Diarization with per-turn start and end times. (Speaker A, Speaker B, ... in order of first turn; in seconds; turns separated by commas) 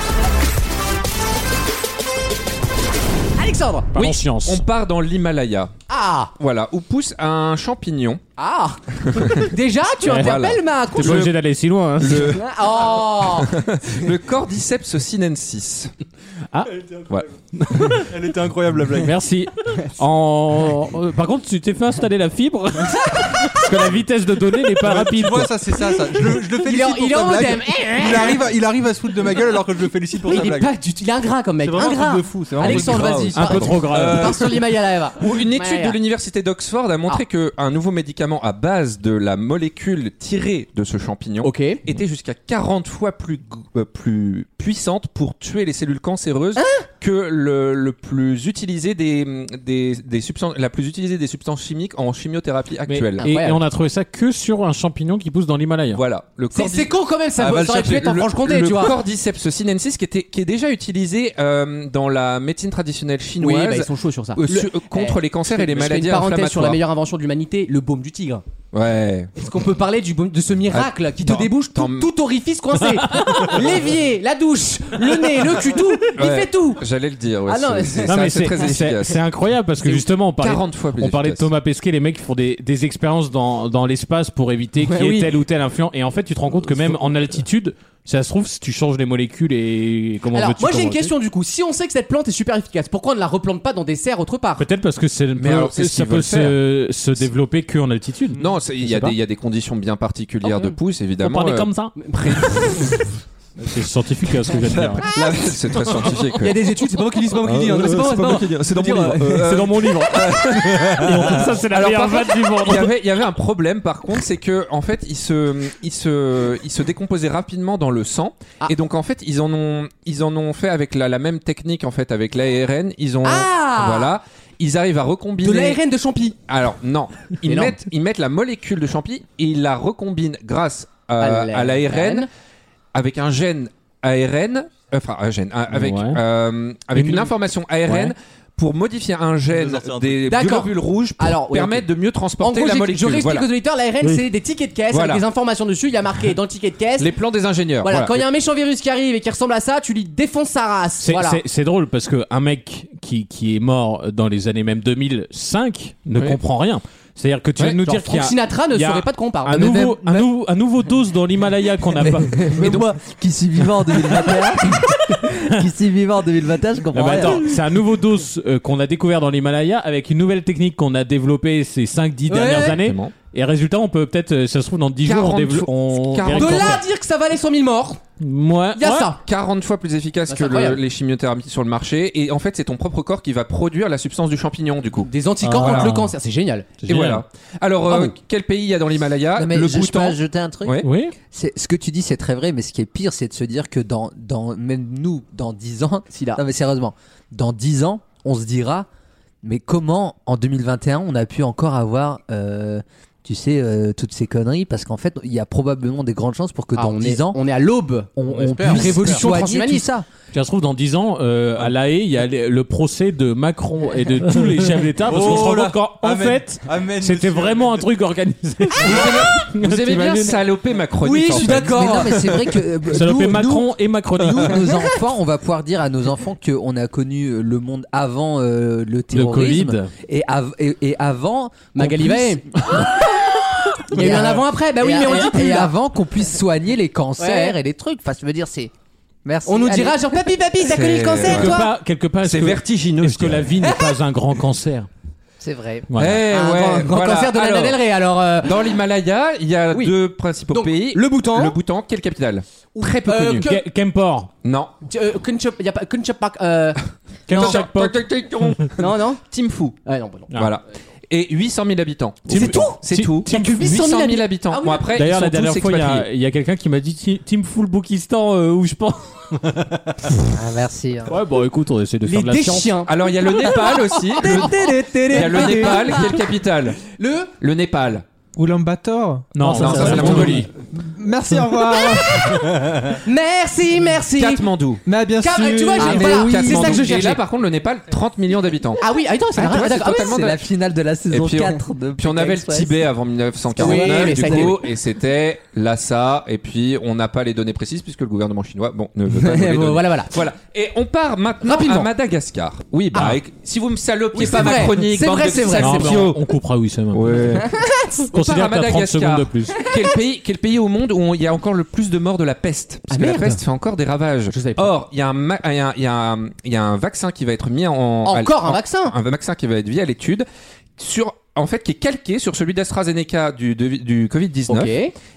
Speaker A: 3.4-3.9, Speaker B: 3.9-4.6, Speaker C: 4.0-5.7, Speaker A: 5.9-6.3, Speaker C: 6.4-8.2, Speaker A: 8.4-11.3, Speaker C: 9.1-9.5, Speaker B: 10.0-10.3, Speaker C: 10.1-11.3, Speaker B: 10.9-12.4, Speaker C: 12.0-12.6, Speaker A: 12.3-13.5, Speaker C: 13.2-15.9, Speaker B: 17.5-18.1, Speaker D: 17.8-19.1, Speaker B: 19.0-25.5, Speaker D: 24.8-30.7, Speaker A: 26.1-28.4, Speaker A: 30.3-36.0, Speaker D: 31.6-33.3, Speaker C: 32.6-34.7, Speaker B: 33.3-34.4, Speaker C: 35.2-53.3, Speaker A: 41.4-41.8, Speaker A: 46.5-46.9, Speaker B: 52.9-56.0, Speaker A: 53.2-53.6, Speaker C: 55.9-66.8, Speaker A: 56.5-59.0, Speaker A: 63.4-68.4, Speaker C: 68.7-69.3, Speaker A: 69.3-76.8, Speaker C: 70.7-72.1, Speaker B: 73.1-73.5, Speaker C: 76.1-79.2, Speaker A: 77.5-78.5, Speaker B: 78.1-91.1, Speaker C: 79.8-81.5, Speaker A: 84.8-85.3, Speaker A: 90.3-94.6, Speaker B: 94.6-99.2, Speaker C: 95.3-96.6, Speaker C: 98.3-103.0, Speaker A: 100.4-100.7, Speaker B: 101.2-102.0, Speaker A: 102.0-102.7, Speaker B: 103.6-105.1, Speaker C: 104.6-106.6, Speaker A: 106.4-109.6, Speaker C: 107.3-125.8, Speaker B: 109.4-110.4, Speaker B: 111.0-112.9, Speaker A: 123.2-124.1, Speaker A: 125.4-126.4, Speaker C: 126.5-132.3, Speaker A: 127.5-127.8, Speaker A: 131.2-132.3, Speaker C: 132.9-143.5, Speaker B: 135.7-136.2, Speaker B: 136.9-137.3, Speaker B: 137.8-138.1, Speaker D: 139.5-140.4, Speaker A: 140.3-147.1, Speaker C: 144.9-145.2, Speaker C: 147.0-148.2, Speaker A: 147.8-151.4, Speaker B: 151.0-162.5, Speaker C: 157.6-157.8, Speaker A: 157.8-160.2, Speaker E: 162.2-167.5, Speaker C: 162.6-162.9, Speaker B: 166.9-176.8, Speaker A: 172.3-172.8, Speaker C: 172.7-173.1, Speaker C: 175.0-176.8, Speaker A: 176.3-178.0, Speaker B: 178.2-179.1, Speaker A: 178.8-179.2, Speaker C: 179.2-185.9, Speaker A: 180.3-180.8, Speaker A: 185.1-186.8, Speaker B: 185.5-186.0, Speaker B: 186.8-187.2, Speaker C: 186.8-190.9, Speaker A: 187.9-188.1, Speaker E: 189.3-198.9, Speaker B: 190.8-191.1, Speaker A: 196.1-196.4, Speaker E: 199.4-207.4, Speaker A: 206.7-209.8, Speaker E: 208.2-210.1, Speaker B: 208.7-209.1, Speaker B: 210.3-220.4, Speaker D: 215.0-217.9, Speaker C: 218.8-222.4, Speaker A: 221.0-222.2, Speaker E: 221.4-232.9, Speaker B: 222.9-224.7, Speaker B: 229.1-229.9, Speaker A: 231.7-233.2, Speaker A: 233.9-235.7, Speaker E: 233.9-238.7, Speaker A: 237.2-237.6, Speaker E: 239.2-240.3, Speaker A: 239.4-241.7, Speaker C: 240.6-241.6, Speaker B: 241.2-244.9, Speaker C: 242.2-243.5, Speaker E: 245.4-245.9, Speaker B: 245.9-246.2, Speaker C: 245.9-247.8, Speaker A: 246.3-248.8, Speaker C: 248.4-253.4, Speaker A: 249.7-249.9, Speaker A: 250.5-251.6, Speaker A: 252.8-253.6, Speaker B: 253.4-254.3, Speaker C: 254.4-254.7, Speaker A: 254.9-257.6, Speaker B: 257.3-258.0, Speaker C: 257.3-259.8, Speaker A: 258.8-259.2, Speaker A: 259.8-260.3, Speaker C: 260.3-266.0, Speaker B: 262.2-263.7, Speaker A: 262.3-264.9, Speaker B: 264.9-269.6, Speaker E: 270.3-271.1, Speaker B: 271.1-272.8, Speaker A: 272.0-276.2, Speaker C: 272.9-276.9, Speaker A: 276.9-277.3, Speaker C: 277.4-278.0, Speaker F: 278.4-280.2, Speaker B: 279.3-280.5, Speaker C: 279.4-280.5, Speaker F: 280.7-282.7, Speaker A: 283.0-284.4, Speaker C: 284.1-284.8, Speaker F: 284.9-286.4, Speaker A: 285.2-287.2, Speaker C: 285.8-288.8, Speaker E: 286.0-286.7, Speaker A: 288.8-290.3, Speaker C: 289.3-290.4, Speaker E: 289.6-292.8, Speaker C: 291.1-306.2, Speaker A: 293.5-294.6, Speaker E: 293.6-294.6, Speaker A: 299.1-300.2, Speaker A: 301.4-301.9, Speaker A: 304.1-306.1, Speaker B: 305.6-307.4, Speaker C: 306.9-307.6, Speaker A: 307.5-307.9, Speaker B: 308.1-309.6, Speaker C: 308.1-324.7, Speaker A: 312.9-313.4, Speaker A: 314.3-314.7, Speaker A: 318.0-318.9, Speaker A: 324.4-324.9